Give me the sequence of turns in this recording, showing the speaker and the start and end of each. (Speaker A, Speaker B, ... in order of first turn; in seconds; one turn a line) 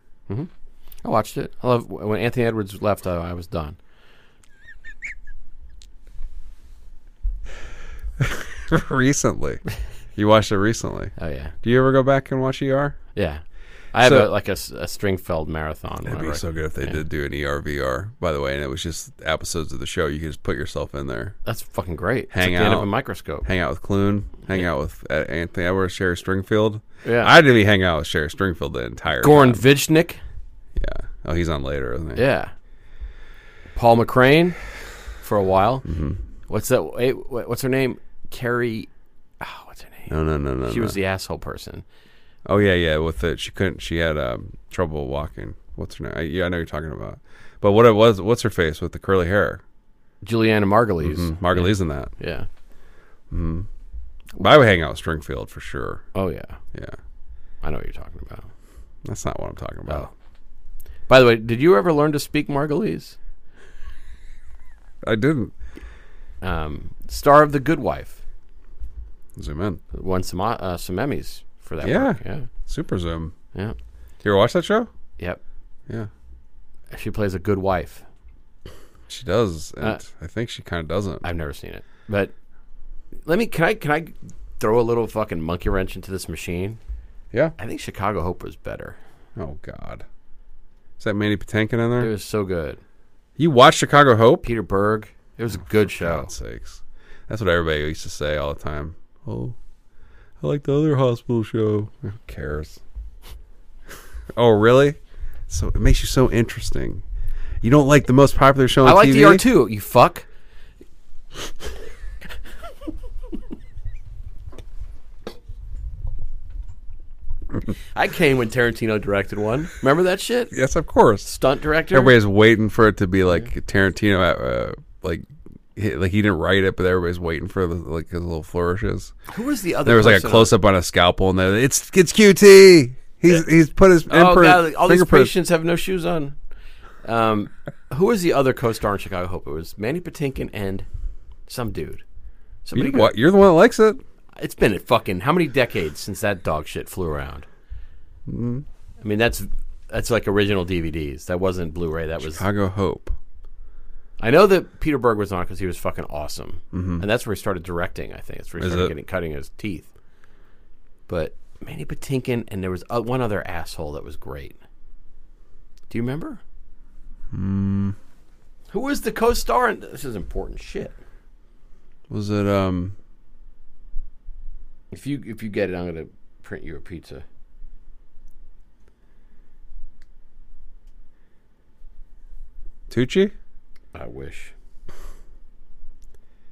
Speaker A: 1.0-3.8
Speaker B: 8.2-9.6
Speaker B: 10.2-13.0
Speaker A: 11.2-11.5
Speaker A: 13.1-13.4
Speaker A: 13.9-17.0
Speaker B: 14.0-14.3
Speaker B: 16.1-21.4
Speaker A: 21.4-23.5
Speaker B: 22.3-22.9
Speaker B: 23.4-29.6
Speaker A: 27.0-27.3
Speaker A: 29.2-30.2
Speaker B: 30.8-32.2
Speaker A: 32.1-32.5
Speaker A: 33.7-34.6
Speaker A: 35.2-35.9
Speaker B: 35.9-36.2
Speaker A: 36.5-40.1
Speaker B: 40.1-41.0
Speaker A: 40.6-41.8
Speaker B: 42.5-49.6
Speaker A: 50.2-52.5
Speaker B: 51.0-52.1
Speaker B: 53.3-53.7
Speaker B: 54.4-56.0
Speaker A: 56.1-56.6
Speaker A: 57.6-58.5
Speaker B: 59.0-60.1
Speaker A: 61.1-63.1
Speaker B: 65.0-65.5
Speaker A: 66.4-68.2
Speaker B: 69.3-69.8
Speaker A: 69.9-72.5
Speaker B: 71.8-73.3
Speaker B: 74.2-74.9
Speaker A: 76.9-78.0
Speaker B: 79.1-81.2
Speaker A: 81.2-82.3
Speaker A: 83.2-86.8
Speaker A: 87.6-89.0
Speaker B: 89.3-90.0
Speaker B: 91.0-92.1
Speaker A: 92.0-92.8
Speaker B: 93.4-94.5
Speaker A: 94.4-96.3
Speaker B: 95.6-99.5
Speaker B: 100.4-102.8
Speaker B: 104.3-105.0
Speaker B: 105.5-107.0
Speaker B: 107.6-109.4
Speaker A: 108.8-110.2
Speaker A: 117.9-120.5
Speaker B: 120.5-121.3
Speaker A: 121.2-122.2
Speaker B: 121.9-129.1
Speaker A: 129.3-130.5
Speaker B: 129.8-135.3
Speaker A: 134.1-136.3
Speaker A: 137.0-140.8
Speaker A: 141.5-142.0
Speaker A: 142.6-143.1
Speaker B: 142.7-144.0
Speaker A: 144.3-147.4
Speaker B: 148.3-148.6
Speaker A: 149.0-152.4
Speaker B: 152.2-153.1
Speaker A: 154.2-159.9
Speaker B: 156.7-157.0
Speaker B: 158.6-158.9
Speaker A: 161.1-164.6
Speaker A: 165.9-166.4
Speaker B: 167.3-167.9
Speaker A: 168.7-170.9
Speaker B: 172.1-172.9
Speaker A: 174.9-177.2
Speaker B: 182.9-183.3
Speaker A: 183.9-184.5